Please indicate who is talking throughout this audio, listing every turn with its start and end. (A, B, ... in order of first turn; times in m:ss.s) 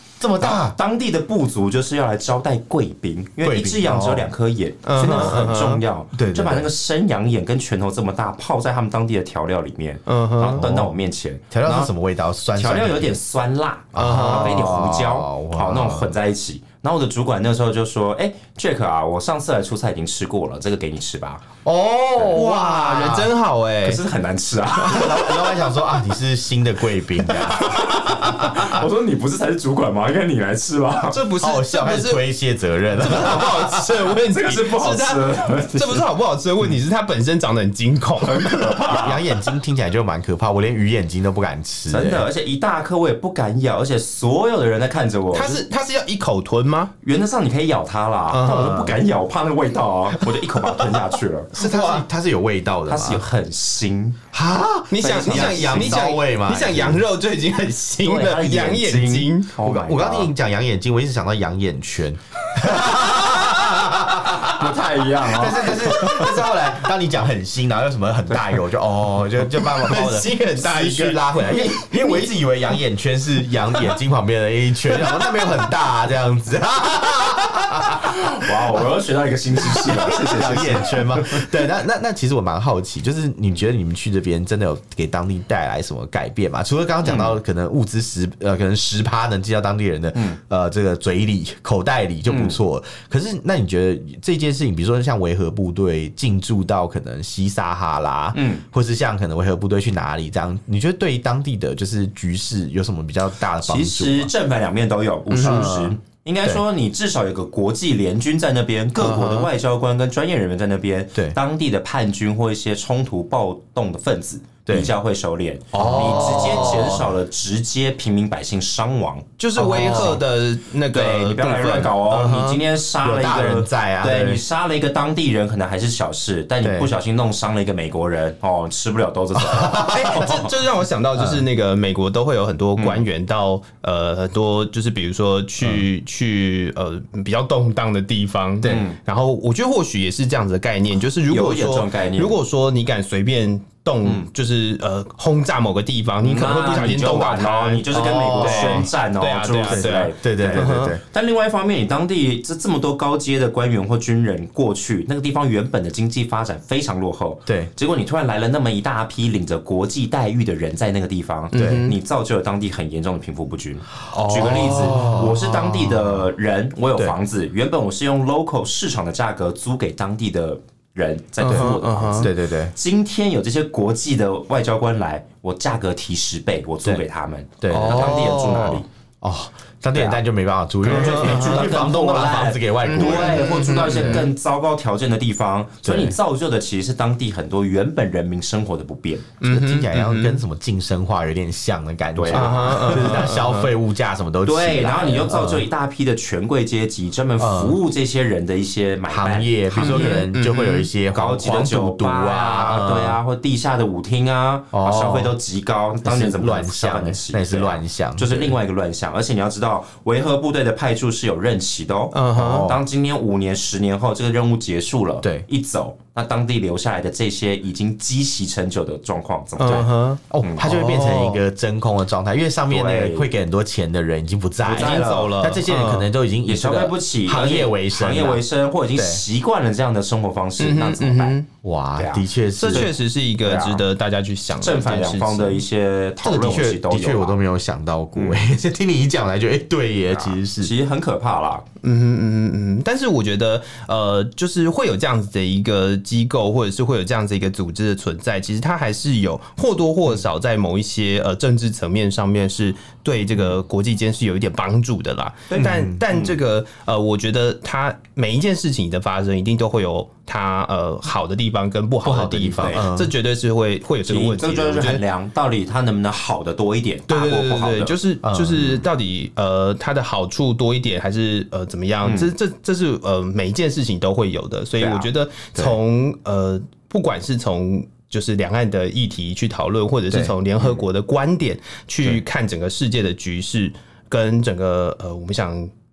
0:00.2-0:00.8 A
0:00.4-0:11.9 B
0:03.4-0:04.3 A
0:04.9-0:05.8 C
0:05.0-0:05.4 A
0:06.1-0:06.7 A
0:10.1-0:10.7 C
0:10.5-0:11.0 A
0:11.5-0:13.1 A
0:12.6-0:21.4 B
0:13.9-0:16.2 A
0:14.0-0:14.7 C
0:21.6-0:23.3 A
0:22.3-0:24.0 C
0:23.8-0:25.4 B
0:24.8-0:25.4 C
0:24.8-0:28.8 A
0:27.5-0:31.2 B
0:31.1-0:32.2 C
0:31.3-0:34.0 A
0:33.0-0:39.1 C
0:34.3-0:36.1 B
0:38.2-0:39.2 B
0:38.9-0:42.3 A
0:41.9-0:45.6 B
0:45.3-0:46.9 C
0:47.0-0:51.5 B
0:48.3-0:48.9 C
0:48.5-0:49.0 A
0:51.5-0:53.2 A
0:51.6-0:52.1 C
0:52.9-0:54.2 B
0:54.3-0:57.0 A
0:54.9-0:59.5 C
0:55.0-0:56.1 B
0:58.0-1:00.3 B
0:59.6-1:18.9 A
1:02.6-1:04.2 C
1:04.2-1:06.3 B
1:05.7-1:06.4 C
1:08.3-1:08.6 B
1:09.4-1:12.4 C
1:14.9-1:15.6 C
1:18.0-1:21.4 B
1:19.6-1:44.3 A
1:27.0-1:27.4 B
1:30.1-1:30.4 B
1:32.3-1:32.6 B
1:38.3-1:38.6 B
1:43.6-2:00.2 B
1:45.3-1:45.8 C
1:45.3-1:46.6 A
1:49.0-1:49.5 C
1:54.7-1:54.9 A
1:55.7-1:56.8 C
1:55.8-1:57.1 A
1:59.4-2:02.6 C
1:59.6-2:00.2 A
2:00.9-2:10.5 B
2:03.0-2:04.4 A
2:06.6-2:06.9 A
2:09.5-2:10.3 A
2:09.6-2:31.0 C
2:11.1-2:11.5 A
2:12.8-2:13.0 B
2:15.6-2:15.9 A
2:18.6-2:19.0 B
2:21.3-2:22.4 B
2:26.2-2:58.9 B
2:27.9-2:28.9 A
2:29.6-2:31.0 A
2:41.5-2:42.0 C
2:41.6-2:41.9 A
2:44.1-2:45.3 C
2:44.3-2:46.1 A
2:51.4-2:52.3 C
2:51.4-2:52.7 A
2:57.6-3:04.1 A
2:57.7-2:58.8 C
3:00.8-3:09.3 B
3:00.9-3:01.7 C
3:02.8-3:04.3 C
3:05.8-3:06.2 A
3:09.4-3:10.4 C
3:09.4-3:15.7 A
3:12.2-3:13.3 B
3:12.3-3:13.7 C
3:14.4-3:20.2 B
3:17.4-3:17.8 A
3:19.1-3:23.2 A
3:19.8-3:20.9 C
3:21.1-3:40.7 B
3:24.7-3:25.4 A
3:26.0-3:28.6 A
3:32.1-3:32.8 C
3:32.3-3:32.8 A
3:35.2-3:35.5 A
3:39.6-3:41.4 C
3:39.6-3:48.4 A
3:42.7-3:43.3 B
3:44.6-3:45.3 B
3:44.8-3:46.1 C
3:46.5-3:51.4 B
3:49.0-3:49.2 A
3:50.6-3:51.5 C
3:51.6-3:52.9 A
3:52.0-3:52.9 B
3:52.6-3:55.6 C
3:53.4-3:53.8 B
3:54.6-3:57.4 B
3:56.2-4:00.7 A
3:58.2-3:58.4 B
4:00.1-4:01.6 B
4:01.8-4:25.0 C
4:15.5-4:16.4 B
4:15.6-4:16.0 A
4:22.0-4:23.1 A
4:22.6-4:22.8 B
4:24.0-4:28.0 B
4:27.1-4:45.7 C
4:28.2-4:28.9 A
4:32.0-4:32.3 B
4:34.8-4:35.1 B